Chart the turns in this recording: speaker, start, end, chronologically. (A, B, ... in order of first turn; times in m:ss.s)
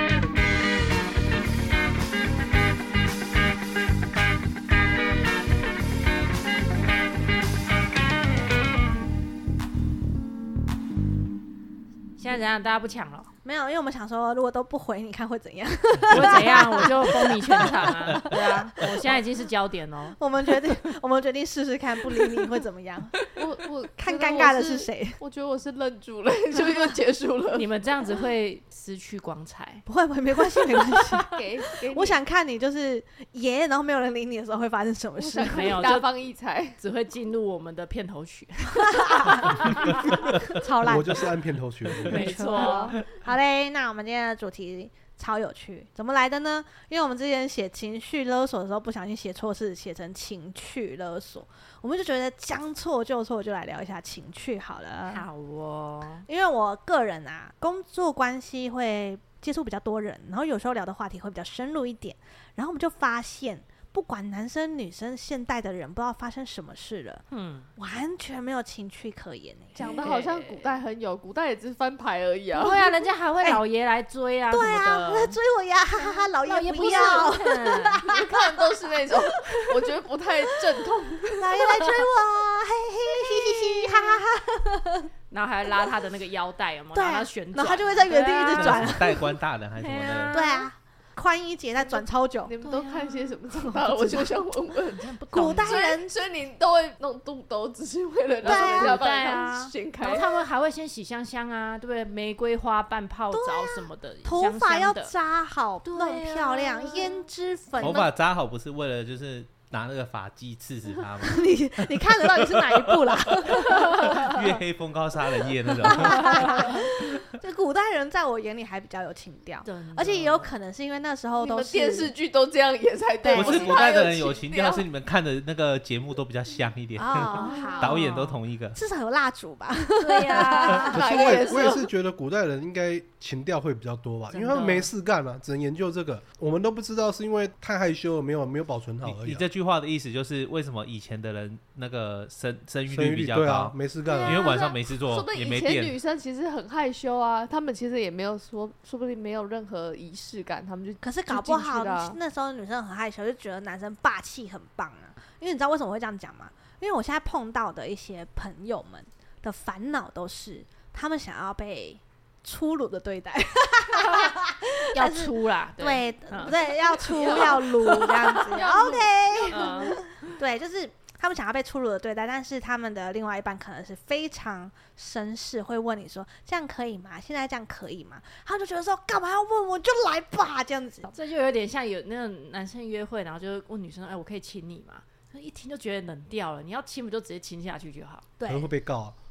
0:12.2-0:13.3 A
0:13.4-0:19.0 B
0:16.1-0:20.2 A
0:20.2-0:23.3 B
0:23.3-0:27.6 C
0:24.0-0:25.2 B
0:27.5-0:29.8 A
0:29.8-0:35.8 B
0:31.3-0:32.2 C
0:35.2-0:36.8 C
0:35.4-0:36.1 A
0:36.8-0:40.3 A
0:38.9-0:39.7 B
0:40.5-0:41.3 B
0:40.8-0:42.3 D
0:42.0-0:43.0 A
0:42.0-0:55.2 B
0:42.3-0:42.9 C
0:55.1-0:56.2 A
0:56.3-1:07.2 B
1:07.3-1:07.7 A
1:07.8-1:10.0 B
1:09.8-1:12.9 C
1:09.8-1:10.8 A
1:12.5-1:15.4 A
1:14.5-1:18.3 B
1:16.0-1:18.0 A
1:18.0-1:21.6 C
1:21.4-1:25.1 B
1:25.3-1:29.0 A
1:26.9-1:29.3 B
1:28.5-1:30.3 E
1:29.8-1:30.7 A
1:30.3-1:32.5 B
1:32.4-1:35.0 C
1:32.6-1:33.4 A
1:33.6-1:34.3 B
1:34.9-1:35.8 A
1:35.3-1:36.2 B
1:35.6-1:40.3 C
1:38.4-1:39.0 B
1:38.4-1:45.1 A
1:43.3-1:48.1 B
1:45.8-1:47.2 A
1:47.8-1:57.2 E
1:51.2-1:54.5 B
1:53.7-1:54.0 A
1:55.8-2:02.1 B
1:56.2-1:56.8 A
1:59.6-2:00.5 A
2:01.4-2:04.8 C
2:03.2-2:03.8 B
2:03.3-2:08.8 E
2:07.0-2:08.0 B
2:07.3-2:08.4 A
2:07.4-2:08.0 C
2:08.7-2:11.3 B
2:10.0-2:11.3 A
2:10.9-2:19.4 D
2:10.9-2:11.9 C
2:14.3-2:14.9 A
2:19.0-2:26.0 E
2:22.9-2:24.6 D
2:24.0-2:32.2 C
2:31.0-3:01.1 B
2:44.0-2:44.3 A
2:44.9-2:46.6 A
2:46.7-2:49.9 C
2:49.5-2:50.0 A
3:01.1-3:08.2 A
3:08.4-3:08.7 B
3:08.5-3:09.1 D